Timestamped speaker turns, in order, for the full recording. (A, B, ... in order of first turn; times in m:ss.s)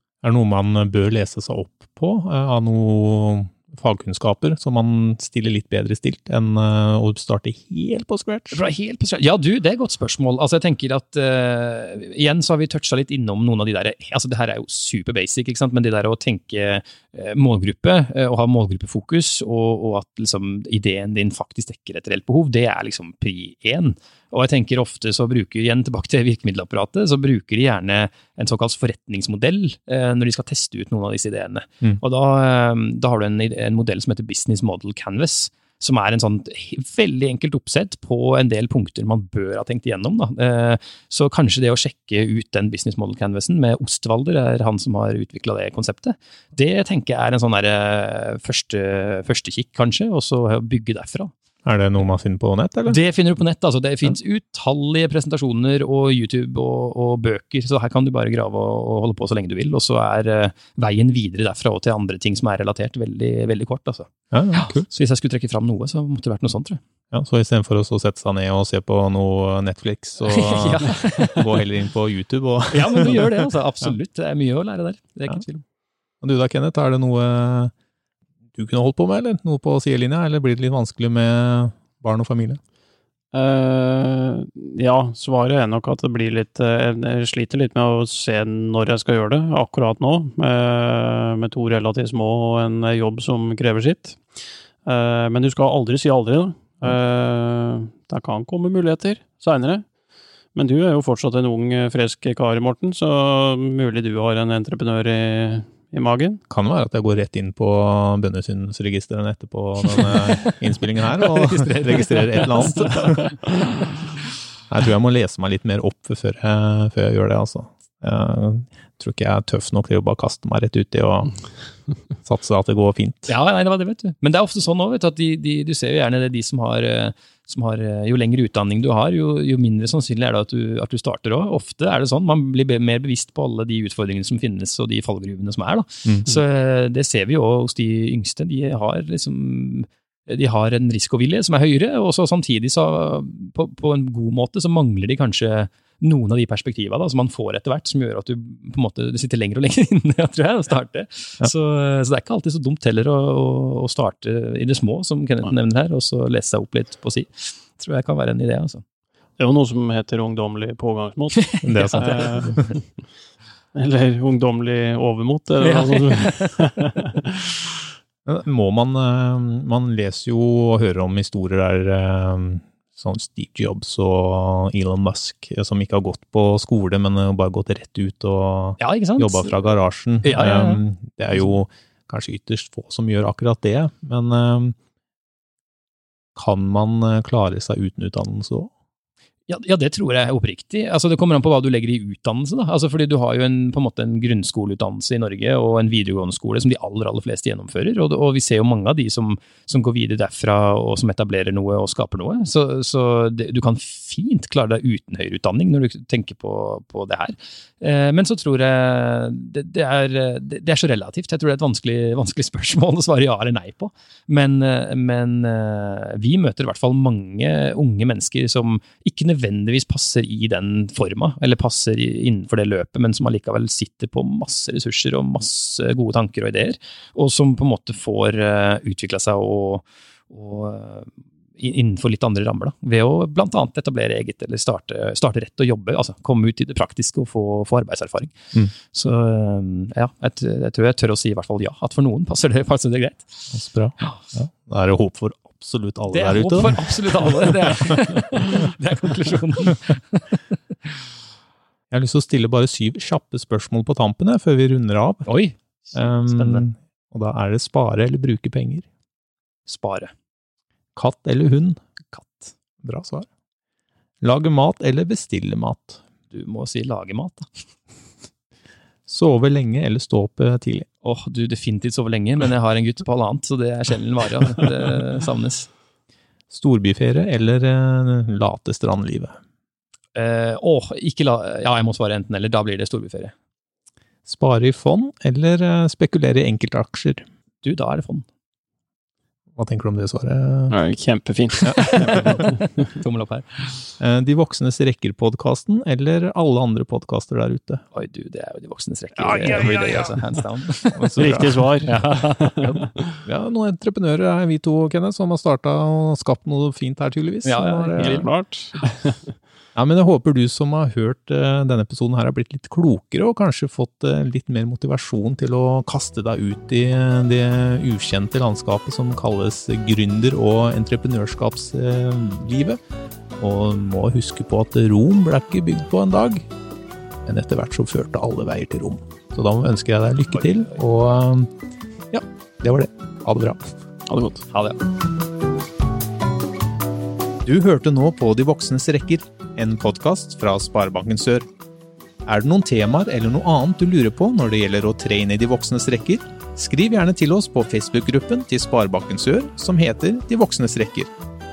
0:00.2-0:08.6 A
0:08.5-0:51.3 B
0:51.6-0:53.0 A
0:52.9-1:06.8 B
1:04.3-1:04.9 A
1:07.1-1:13.5 A
1:10.3-1:11.5 B
1:12.7-1:15.6 B
1:16.2-1:17.7 A
1:18.6-1:22.6 A
1:23.3-1:34.2 C
1:34.8-1:39.8 C
1:40.5-1:46.4 C
1:46.5-1:53.3 A
1:51.2-1:53.1 B
1:54.7-2:01.4 A
2:02.2-2:03.3 A
2:03.3-2:38.8 B
2:16.0-2:16.3 A
2:39.4-2:42.6 C
2:41.4-2:42.6 B
2:41.6-2:42.7 A
2:43.7-2:47.4 C
2:45.6-2:46.7 B
2:48.2-3:04.8 A
2:58.8-2:59.6 B
3:00.2-3:00.8 B
3:06.4-3:08.7 A
3:09.5-4:03.5 B
4:03.5-4:07.5 A
4:06.1-4:10.3 B
4:11.9-4:15.3 A
4:15.2-4:16.6 B
4:15.9-4:18.8 A
4:19.7-4:20.1 B
4:21.0-4:21.8 A
4:22.1-4:22.5 B
4:22.8-4:23.3 A
4:24.2-4:26.0 A
4:26.3-4:27.5 B
4:29.1-4:30.8 A
4:31.0-4:35.7 B
4:36.5-4:39.4 A
4:40.1-4:43.3 B
4:44.2-4:47.2 A
4:47.6-4:48.2 B
4:49.6-4:50.8 A
4:50.7-4:52.8 C
4:51.6-4:52.4 A
4:51.9-4:53.9 B
4:54.0-4:57.8 A
4:57.9-5:01.3 B
4:59.4-4:59.9 C
5:01.0-5:01.6 A
5:01.2-5:03.2 C
5:01.8-5:02.8 B
5:03.2-5:08.2 A
5:07.4-5:08.3 B
5:08.0-5:09.2 C
5:09.7-5:22.8 A
5:23.4-5:26.5 A
5:27.2-5:31.5 A
5:32.1-5:33.8 A
5:34.1-5:34.4 C
5:34.5-5:34.8 B
5:37.4-5:41.5 A
5:42.2-5:51.1 A